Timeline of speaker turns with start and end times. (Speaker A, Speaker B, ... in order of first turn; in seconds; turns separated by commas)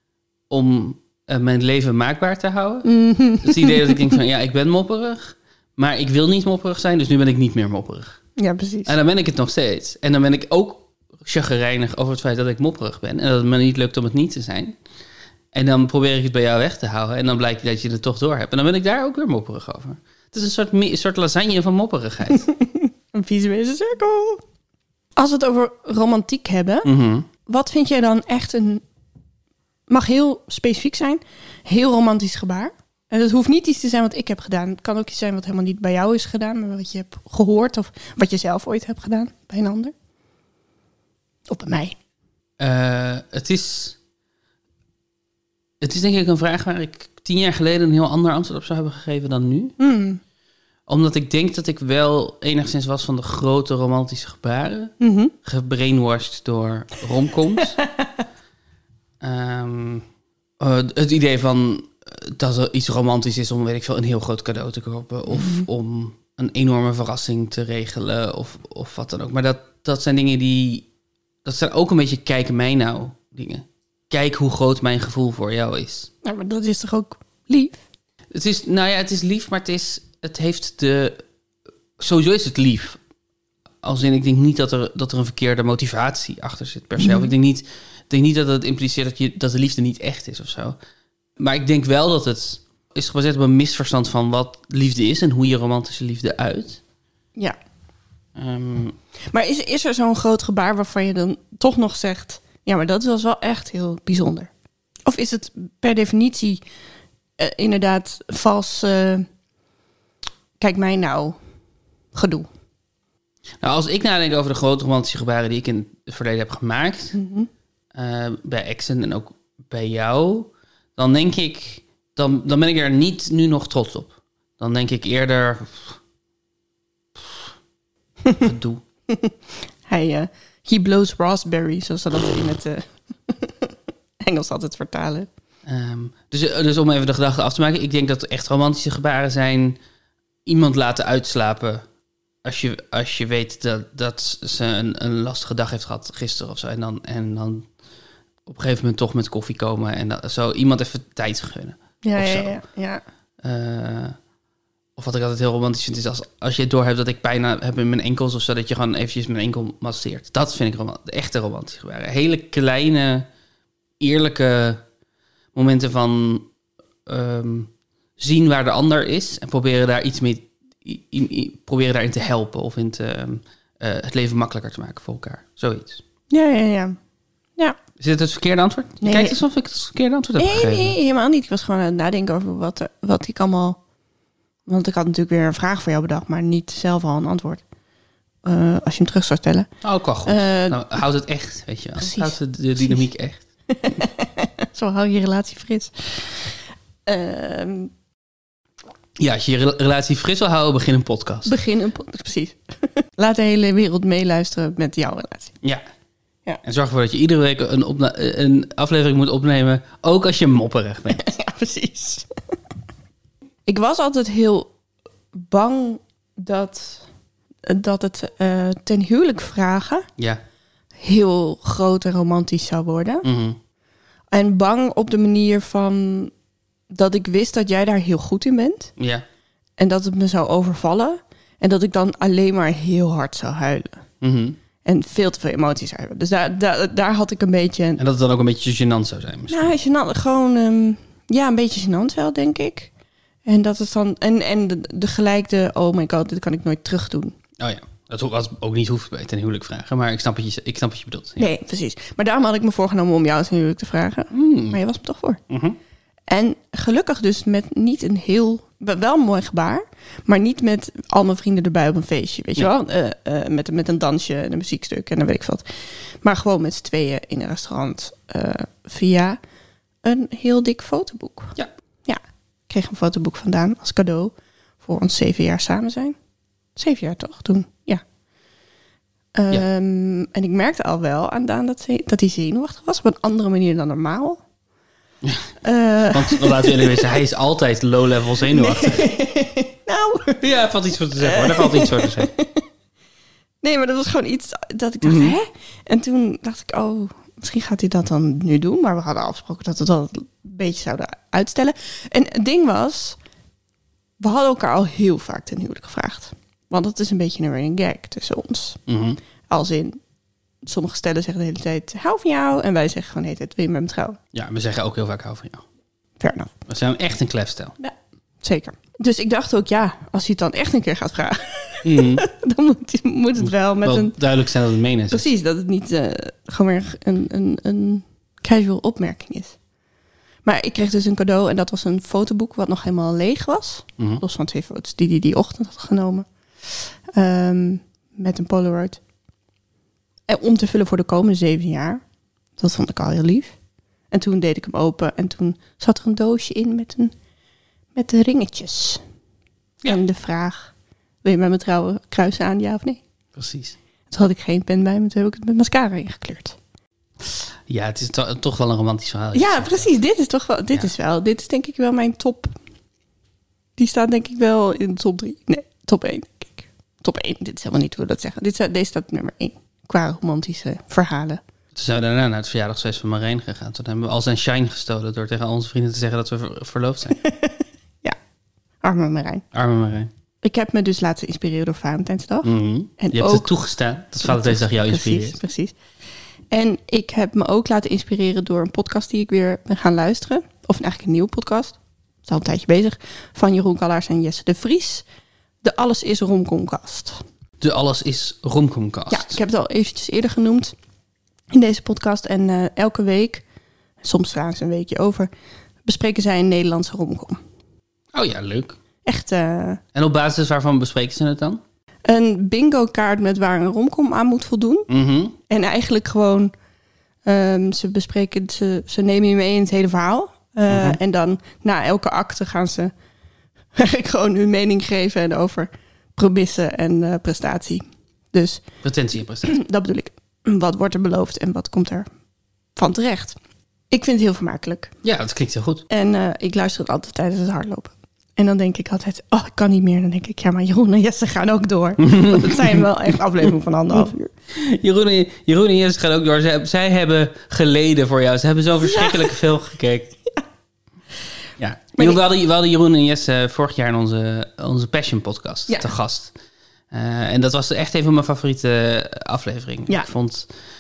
Speaker A: 0.5-8.2, Speaker B: 2.9-4.0, Speaker B: 8.4-8.9, Speaker A: 8.9-14.8, Speaker A: 15.5-22.5, Speaker B: 22.4-24.4, Speaker B: 25.2-26.9, Speaker A: 26.9-27.3, Speaker B: 27.5-28.8, Speaker B: 29.9-39.9, Speaker B: 41.5-42.0, Speaker A: 42.6-44.0, Speaker A: 45.8-49.8, Speaker B: 49.8-50.2, Speaker A: 50.9-54.9, Speaker B: 55.0-55.3, Speaker A: 55.4-57.8, Speaker B: 57.8-58.1, Speaker A: 59.2-60.0, Speaker A: 60.6-70.9, Speaker B: 65.4-65.6, Speaker A: 71.5-76.1, Speaker B: 76.2-77.8, Speaker A: 78.3-81.2, Speaker A: 82.0-83.0, Speaker A: 83.8-90.8, Speaker B: 87.0-87.3, Speaker A: 91.4-96.8, Speaker A: 98.4-99.0, Speaker B: 99.3-104.5, Speaker B: 105.0-106.6, Speaker B: 107.4-109.3, Speaker B: 110.6-111.4, Speaker B: 112.1-112.5, Speaker A: 113.6-117.2, Speaker B: 117.1-117.5, Speaker A: 117.9-126.0, Speaker A: 128.4-128.8, Speaker B: 129.9-135.3, Speaker A: 135.7-139.8, Speaker A: 140.5-141.8, Speaker A: 142.4-147.7, Speaker A: 148.5-152.6, Speaker B: 152.0-153.0, Speaker A: 153.4-154.2, Speaker A: 155.0-163.3, Speaker A: 164.0-164.8, Speaker A: 165.5-166.5, Speaker A: 167.1-176.0, Speaker B: 176.3-177.0, Speaker A: 178.0-181.0, Speaker B: 179.0-179.4, Speaker B: 180.4-183.8, Speaker B: 184.7-187.6, Speaker B: 188.4-189.7, Speaker A: 189.8-193.4, Speaker B: 190.3-190.8, Speaker B: 192.0-193.1, Speaker B: 193.7-197.9, Speaker A: 199.2-201.6, Speaker B: 201.5-205.6, Speaker A: 206.6-211.3, Speaker B: 211.1-212.3, Speaker B: 213.7-214.7, Speaker B: 215.3-217.1, Speaker B: 217.7-220.1, Speaker B: 221.0-223.3, Speaker A: 223.2-223.6, Speaker B: 224.3-226.3, Speaker B: 226.9-228.9, Speaker A: 229.0-229.2, Speaker B: 229.8-234.0, Speaker A: 234.2-234.6, Speaker B: 234.8-238.0, Speaker A: 238.0-239.6, Speaker B: 239.5-242.9, Speaker B: 243.5-247.4, Speaker A: 247.6-251.5, Speaker B: 251.4-255.4, Speaker A: 254.3-254.8, Speaker A: 255.5-255.8, Speaker B: 256.3-265.7, Speaker B: 266.2-269.4, Speaker B: 270.0-276.2, Speaker B: 276.8-278.0, Speaker B: 279.4-284.4, Speaker A: 285.2-285.5, Speaker B: 285.6-287.2, Speaker A: 286.1-289.1, Speaker B: 288.5-290.4, Speaker A: 290.4-292.3, Speaker B: 291.2-292.6, Speaker B: 293.6-303.2, Speaker A: 295.0-295.4, Speaker B: 304.2-308.8, Speaker A: 308.9-309.2, Speaker B: 309.5-310.0, Speaker B: 310.6-314.2, Speaker A: 314.3-315.6, Speaker B: 316.2-316.6, Speaker A: 316.7-317.8, Speaker B: 317.8-324.1, Speaker A: 321.8-322.2, Speaker A: 323.4-325.3, Speaker B: 325.1-329.6, Speaker B: 330.4-339.0, Speaker B: 340.3-342.0, Speaker B: 342.6-343.6, Speaker B: 344.1-347.1, Speaker B: 347.9-349.0, Speaker B: 349.9-350.7, Speaker B: 351.2-353.0, Speaker A: 353.4-353.8, Speaker B: 354.1-356.6, Speaker A: 357.7-359.9, Speaker B: 359.3-362.5, Speaker B: 363.8-371.4, Speaker A: 371.8-377.2, Speaker B: 377.2-378.2, Speaker B: 378.8-379.4, Speaker A: 379.5-380.1, Speaker B: 380.4-383.5, Speaker A: 382.4-385.4, Speaker B: 384.2-385.8, Speaker B: 386.5-395.1, Speaker B: 395.6-397.2, Speaker A: 397.6-399.4, Speaker B: 399.1-400.8, Speaker B: 401.5-403.4, Speaker B: 404.0-405.3, Speaker B: 405.9-407.4, Speaker A: 408.1-408.8, Speaker B: 409.0-409.8, Speaker A: 409.9-411.6, Speaker B: 412.1-414.9, Speaker A: 414.9-415.4, Speaker B: 415.5-416.5, Speaker B: 417.2-422.9, Speaker A: 420.7-421.0, Speaker B: 423.7-428.6, Speaker A: 428.8-429.6, Speaker B: 429.4-432.1, Speaker B: 432.8-433.4, Speaker B: 433.9-434.9, Speaker A: 435.0-435.9, Speaker B: 435.9-444.3, Speaker A: 442.0-442.9, Speaker A: 444.5-450.1, Speaker B: 448.8-449.4, Speaker A: 451.6-456.3, Speaker A: 456.9-460.5